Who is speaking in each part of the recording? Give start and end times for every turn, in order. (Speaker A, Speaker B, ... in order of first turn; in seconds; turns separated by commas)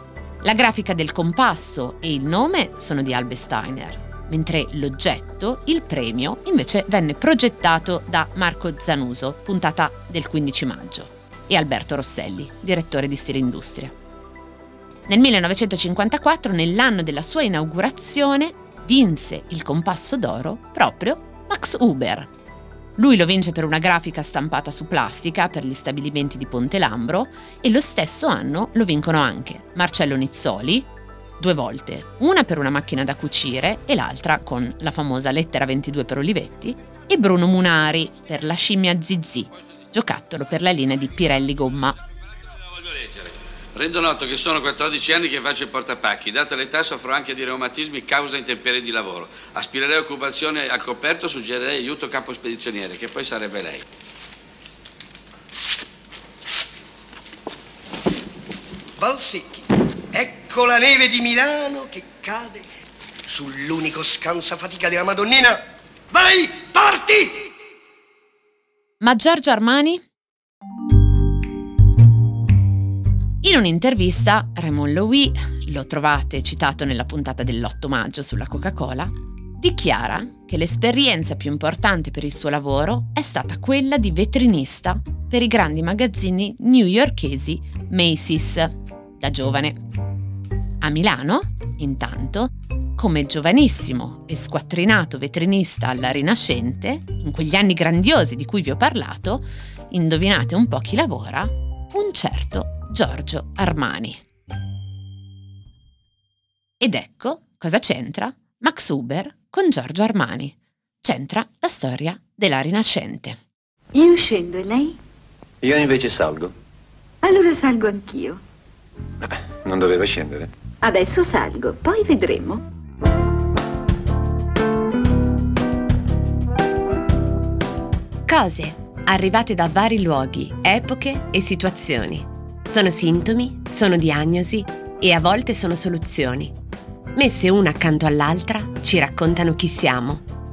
Speaker A: 0.4-13.9, Speaker A: 15.1-22.3, Speaker A: 23.0-42.0, Speaker B: 42.8-53.8, Speaker C: 59.0-62.7, Speaker C: 63.3-65.6, Speaker C: 66.1-67.5, Speaker A: 69.0-70.0, Speaker A: 73.4-89.8, Speaker A: 90.8-104.2, Speaker A: 106.8-113.4, Speaker D: 113.9-115.0, Speaker E: 115.6-116.5, Speaker D: 117.2-118.4, Speaker E: 119.2-120.5, Speaker D: 120.8-122.6, Speaker A: 128.3-136.5, Speaker A: 137.2-140.2